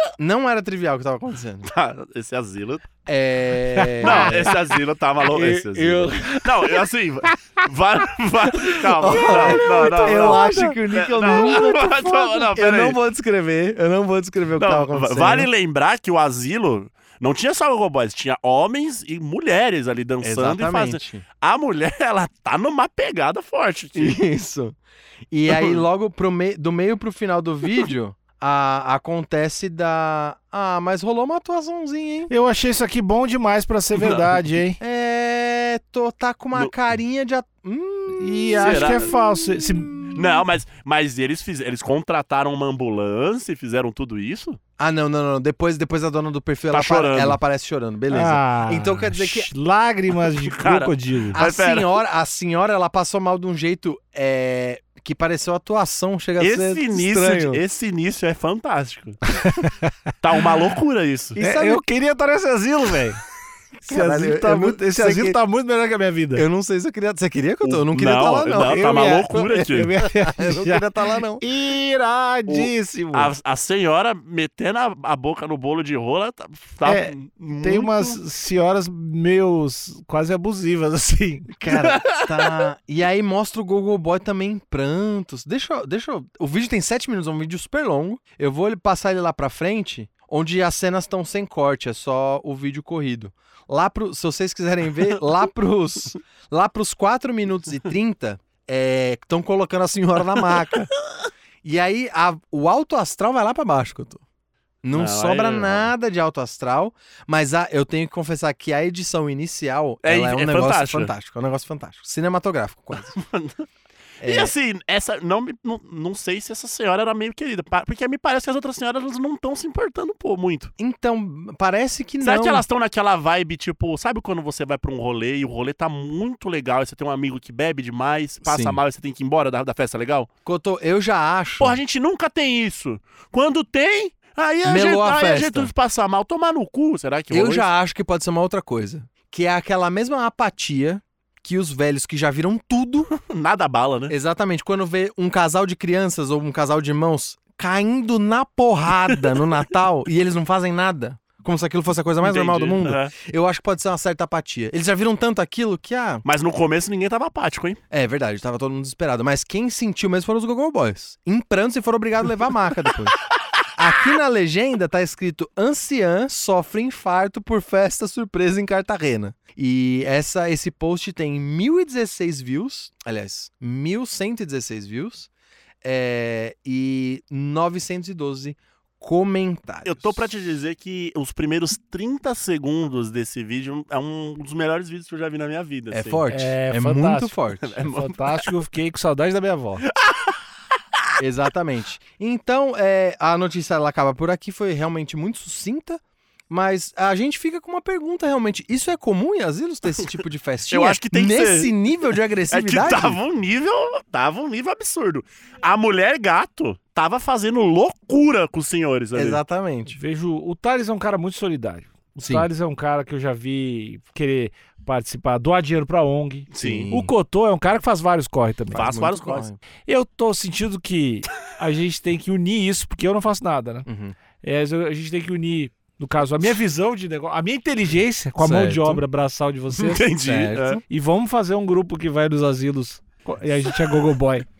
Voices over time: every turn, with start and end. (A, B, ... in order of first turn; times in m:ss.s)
0:00.2-0:01.7 A
0:01.6-0:02.9 B
0:03.1-0:04.6 A
0:03.8-0:04.6 C
0:04.0-0:13.0 B
0:05.3-0:06.8 C
0:08.7-0:15.5 A
0:09.2-0:10.8 C
0:14.6-0:24.2 B
0:20.2-0:21.2 A
0:24.0-0:24.8 A
0:25.3-0:32.3 A
0:25.5-0:25.8 B
0:32.3-0:34.8 C
0:34.0-0:34.3 B
0:34.8-0:40.4 A
0:38.2-0:40.1 C
0:38.6-0:39.1 B
0:40.2-0:44.6 B
0:44.8-0:49.5 A
0:46.7-0:47.4 B
0:48.1-0:51.4 C
0:50.2-0:51.9 B
0:51.3-0:57.6 A
0:56.4-0:59.2 B
0:59.3-0:59.9 C
1:00.2-1:01.4 B
1:01.4-1:01.8 A
1:01.4-1:03.2 C
1:03.8-1:05.4 A
1:03.9-1:06.4 C
1:06.4-1:11.4 A
1:07.6-1:10.0 B
1:08.6-1:10.8 C
1:11.4-1:13.3 C
1:12.5-1:18.2 B
1:16.8-1:21.6 C
1:21.5-1:40.9 A
1:21.7-1:22.6 B
1:41.6-1:44.2 A
1:44.8-1:53.2 A
1:44.9-1:45.9 B
1:50.0-1:51.1 B
1:53.1-1:53.7 B
1:54.2-1:54.5 A
1:54.2-2:00.7 B
2:00.8-2:02.6 A
2:02.2-2:10.3 B
2:08.4-2:08.8 A
2:10.5-2:11.8 A
2:11.6-2:17.7 B
2:14.6-2:15.7 A
2:17.3-2:23.1 A
2:23.2-2:24.2 B
2:24.1-2:36.2 A
2:32.2-2:33.1 B
2:36.2-2:37.8 B
2:37.9-2:43.2 A
2:43.8-2:55.3 A
2:55.8-3:00.3 A
2:59.8-3:06.2 B
3:05.9-3:07.8 A
3:06.3-3:09.9 C
3:07.6-3:08.4 B
3:10.0-3:10.3 B
3:11.2-3:23.2 A
3:20.7-3:21.8 B
3:22.5-3:29.4 B
3:29.1-3:30.0 A
3:30.0-3:38.9 C
3:32.2-3:32.5 A
3:36.5-3:36.9 B
3:36.6-3:37.1 A
3:38.7-3:39.6 A
3:38.8-3:39.5 B
3:39.9-3:43.9 C
3:43.9-3:44.2 A
3:44.4-3:50.1 C
3:48.4-3:49.0 A
3:49.8-3:50.8 B
3:50.2-3:50.8 A
3:50.9-3:54.4 C